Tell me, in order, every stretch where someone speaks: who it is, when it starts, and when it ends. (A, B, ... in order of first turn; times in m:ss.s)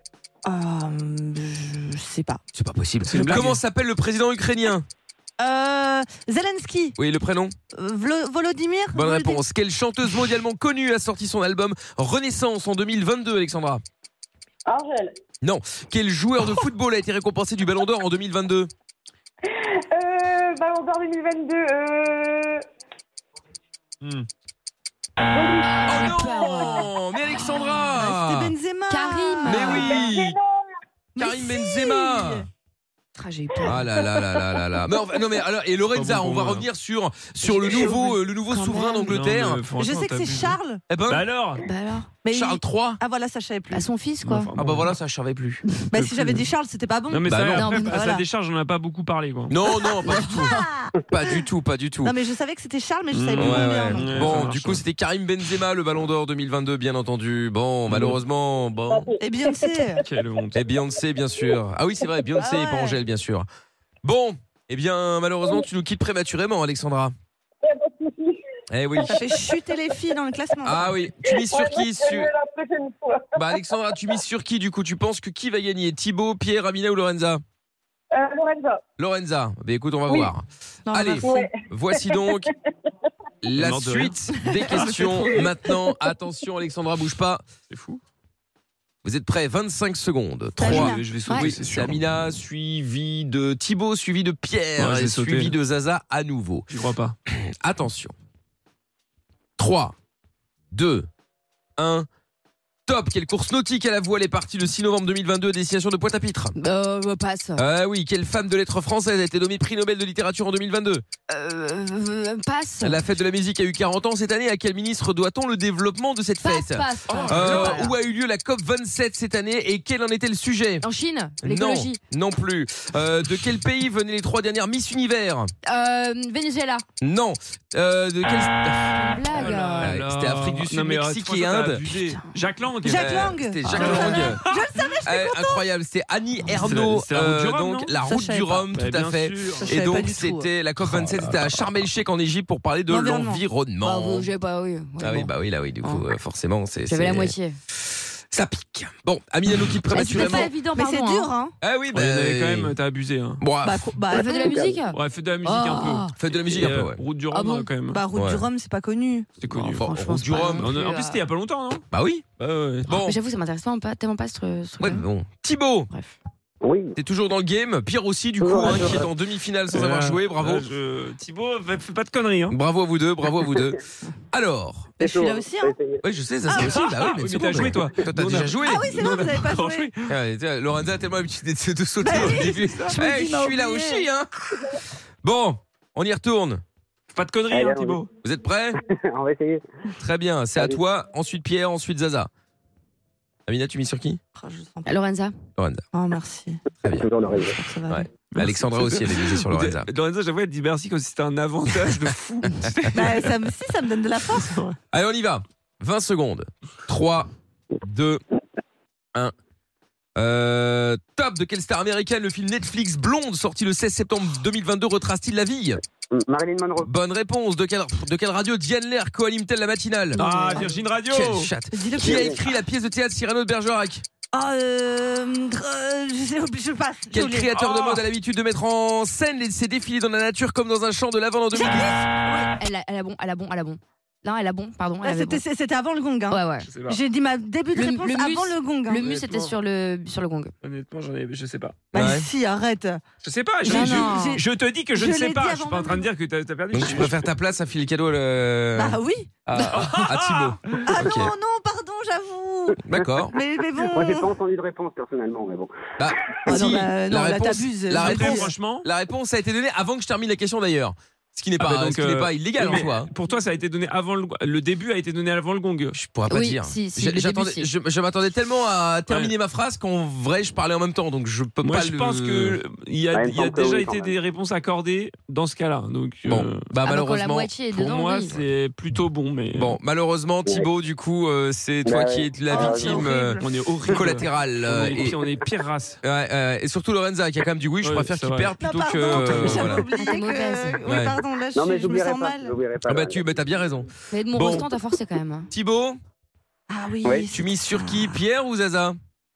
0:00.4-0:02.4 A
0:02.5-0:04.9 B
0:03.1-0:03.6 C
0:03.1-0:03.4 A
0:05.4-0:07.0 A
0:07.0-0:07.6 B
0:07.7-0:09.4 A
0:08.9-0:13.8 B
0:14.7-0:15.1 D
0:15.4-0:18.7 B
0:19.4-0:22.6 D
0:25.3-0:25.8 D
0:25.7-0:26.9 E
0:25.9-0:28.5 B
0:28.0-0:30.0 A
0:28.9-0:30.0 E
0:29.4-0:30.4 B
0:29.8-0:30.6 D
0:31.2-0:32.4 A
0:31.2-0:32.5 B
0:33.2-0:33.9 E
0:33.6-0:39.6 B
0:35.9-0:36.7 C
0:37.4-0:39.1 E
0:39.1-0:41.6 C
0:39.8-0:40.8 A
0:40.9-0:41.2 B
0:41.6-0:42.1 E
0:42.2-0:43.9 A
0:42.3-0:43.0 B
0:43.7-0:44.5 E
0:44.2-0:45.0 C
0:44.6-0:45.6 B
0:45.9-0:47.3 A
0:45.9-0:46.5 C
0:47.1-0:49.6 C
0:47.3-0:47.8 B
0:47.6-0:48.0 E
0:47.8-0:48.2 A
0:49.5-0:52.2 B
0:50.0-0:50.9 A
0:52.0-0:54.4 A
0:53.1-0:54.8 C
0:53.4-0:59.1 B
0:57.9-0:58.2 C
0:59.2-1:00.0 A
1:00.0-1:00.6 C
1:00.5-1:03.5 B
1:02.4-1:03.0 A
1:04.0-1:07.2 B
1:07.6-1:08.4 D
1:08.7-1:09.2 B
1:09.1-1:10.9 A
1:10.6-1:12.3 B
1:11.2-1:13.3 D
1:13.3-1:17.4 B
1:18.1-1:18.8 D
1:19.0-1:22.5 B
1:20.9-1:21.5 A
1:21.2-1:21.5 D
1:23.4-1:27.4 B
1:23.6-1:24.2 C
1:24.7-1:25.4 C
1:27.7-1:28.0 C
1:29.0-1:36.7 B
1:30.6-1:31.0 A
1:30.6-1:32.0 C
1:34.8-1:35.5 C
1:36.7-1:37.2 C
1:37.3-1:38.1 B
1:39.6-1:40.0 B
1:40.7-1:41.1 B
1:41.8-1:42.1 B
1:42.9-1:46.5 B
1:46.6-1:47.6 E
1:47.6-1:51.0 B
1:51.3-1:53.0 E
1:52.8-2:00.8 B
1:56.4-1:57.9 E
1:57.1-1:57.9 C
2:00.8-2:02.0 E
2:01.4-2:05.5 B
2:05.7-2:06.8 E
2:07.0-2:11.8 B
2:09.0-2:10.0 E
2:09.3-2:14.8 C
2:12.8-2:15.6 A
2:13.0-2:14.4 B
2:15.0-2:24.3 B
2:16.6-2:17.9 C
2:18.0-2:18.7 A
2:18.7-2:20.1 C
2:19.6-2:20.5 A
2:20.8-2:21.7 C
2:22.9-2:23.4 A
2:23.8-2:25.3 E
2:25.0-2:27.4 B
2:26.9-2:27.6 E
2:28.3-2:30.5 B
2:29.9-2:31.3 E
2:30.0-2:31.6 A
2:31.6-2:32.7 B
2:31.9-2:33.4 C
2:33.4-2:33.9 B
2:33.6-2:34.8 A
2:34.1-2:36.1 E
2:34.9-2:38.0 C
2:36.2-2:37.0 B
2:37.3-2:37.7 E
2:37.9-2:39.3 A
2:38.1-2:38.5 B
2:39.4-2:41.8 C
2:39.7-2:40.7 B
2:39.8-2:41.2 E
2:41.9-2:42.2 B
2:42.4-2:42.9 C
2:42.9-2:43.2 B
2:42.9-2:45.0 E
2:44.8-2:45.9 B
2:46.6-2:47.0 F
2:47.0-2:50.6 B
2:48.4-2:49.1 F
2:49.7-2:52.6 C
2:52.5-2:53.8 B
2:54.3-2:55.0 B
2:55.0-2:56.0 F
2:55.0-2:55.8 A
2:56.0-2:58.8 B
2:56.5-2:57.6 A
2:56.5-3:00.1 C
2:58.6-2:59.9 A
3:00.1-3:04.3 B
3:02.0-3:04.1 A
3:02.1-3:03.0 C
3:05.2-3:06.6 B
3:07.1-3:08.1 C
3:07.5-3:08.0 F
3:08.2-3:08.8 B
3:08.9-3:09.6 F
3:10.0-3:12.3 B
3:10.6-3:10.8 F
3:13.5-3:14.2 B
3:14.4-3:14.9 A
3:14.9-3:15.3 E
3:15.6-3:15.8 B
3:15.9-3:16.6 A
3:17.0-3:17.6 F
3:17.5-3:18.1 A
3:17.9-3:19.9 B
3:18.3-3:23.3 C
3:22.9-3:24.6 A
3:24.3-3:24.8 C
3:24.9-3:27.3 B
3:27.8-3:28.2 B
3:30.2-3:35.8 B
3:36.1-3:36.9 F
3:36.8-3:40.2 B
3:40.2-3:40.8 A
3:40.2-3:41.5 C
3:41.1-3:44.0 B
3:41.7-3:42.4 A
3:42.0-3:42.4 F
3:44.3-3:47.5 A
3:47.1-3:52.0 B
3:47.5-3:48.0 C
3:51.6-3:52.5 A
3:52.6-3:55.4 E
3:55.0-3:59.0 A
3:56.3-3:56.7 E
3:56.7-3:57.0 C
3:57.7-4:00.5 E
3:59.0-3:59.5 C
4:00.6-4:01.9 C
4:01.9-4:02.3 B
4:01.9-4:03.0 A
4:03.2-4:07.2 C
4:03.7-4:04.4 A
4:03.7-4:04.4 E
4:05.0-4:06.1 A
4:06.7-4:11.3 B
4:08.8-4:09.3 A
4:09.6-4:10.8 C
4:10.8-4:12.8 A
4:12.8-4:13.3 B
4:13.3-4:14.3 A
4:13.8-4:15.7 F
4:16.0-4:23.1 B
4:16.5-4:18.5 A
4:17.9-4:18.9 C
4:21.6-4:26.0 C
4:25.9-4:32.6 B
4:26.3-4:27.7 E
4:31.6-4:36.6 C
4:33.1-4:34.1 F
4:36.3-4:37.5 B
4:36.8-4:38.3 E
4:37.7-4:39.8 C
4:39.6-4:45.2 B
4:41.9-4:43.0 F
4:42.5-4:43.4 A
4:43.4-4:46.0 C
4:46.0-4:49.8 B
4:47.8-4:49.8 C
4:48.6-4:52.6 A
4:50.0-4:50.8 E
4:50.8-4:51.2 B
4:51.6-4:53.2 F
4:52.9-4:54.7 B
4:54.1-4:55.5 E
4:55.5-4:56.0 B
4:56.7-4:58.2 A
4:57.3-4:59.0 B